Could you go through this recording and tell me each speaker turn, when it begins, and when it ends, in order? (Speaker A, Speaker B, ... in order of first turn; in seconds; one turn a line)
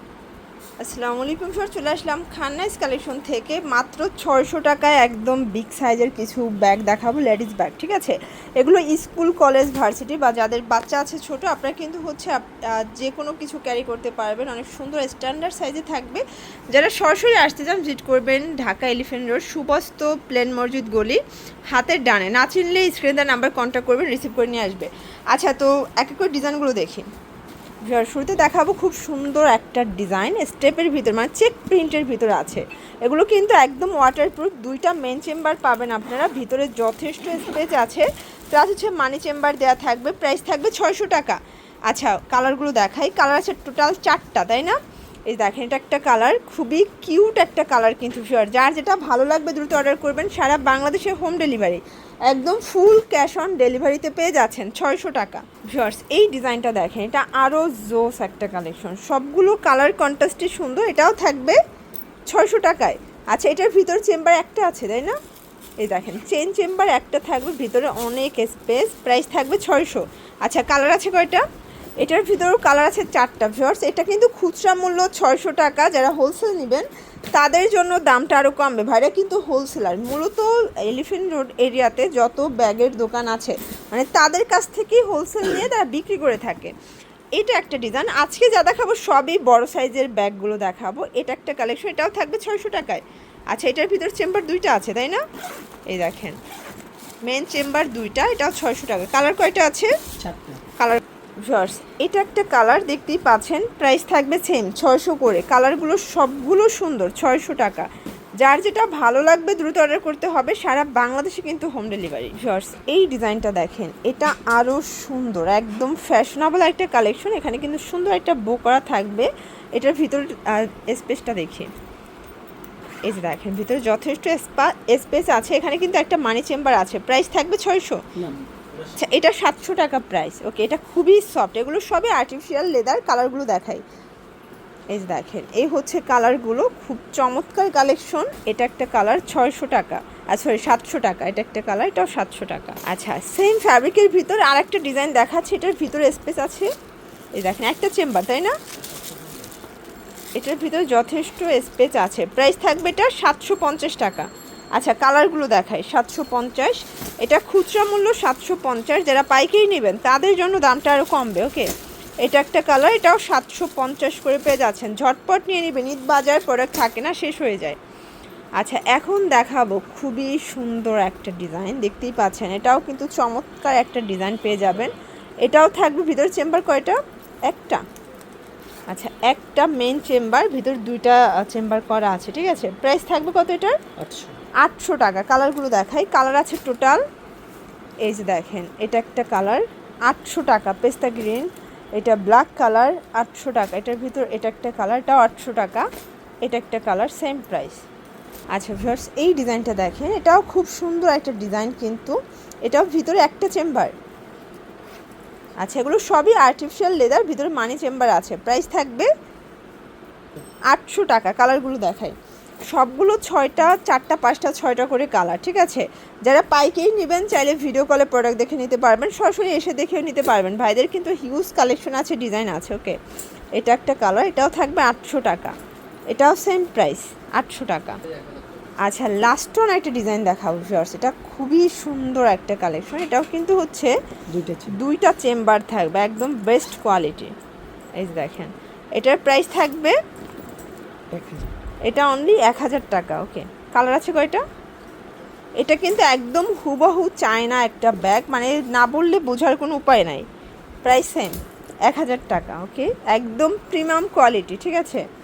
Speaker A: 0.8-27.1
Speaker A: 27.8-61.6
Speaker A: 62.3-65.2
Speaker A: 65.8-71.4
Speaker A: 72.0-86.7
Speaker A: 87.3-95.2
Speaker A: 95.9-96.4
Speaker A: 97.2-99.9
Speaker B: 100.2-100.6
Speaker A: 100.8-107.9
Speaker A: 108.4-121.7
Speaker A: 123.0-128.0
Speaker B: 128.2-128.4
Speaker A: 128.9-133.8
Speaker A: 134.9-146.7
Speaker A: 147.3-148.6
Speaker A: 150.3-161.7
Speaker A: 162.2-167.8
Speaker A: 168.6-177.8
Speaker A: 178.9-183.8
Speaker B: 184.0-184.4
Speaker A: 184.6-187.0
Speaker A: 188.0-195.9
Speaker A: 196.4-197.8
Speaker A: 198.5-203.9
Speaker A: 205.6-209.1
Speaker A: 210.7-212.2
Speaker A: 212.7-223.0
Speaker A: 223.5-225.5
Speaker A: 226.1-228.0
Speaker A: 228.8-233.9
Speaker B: 234.3-234.8
Speaker A: 234.7-237.3
Speaker A: 237.9-240.0
Speaker B: 241.1-241.5
Speaker A: 241.8-244.4
Speaker A: 245.6-250.2
Speaker A: 250.8-255.0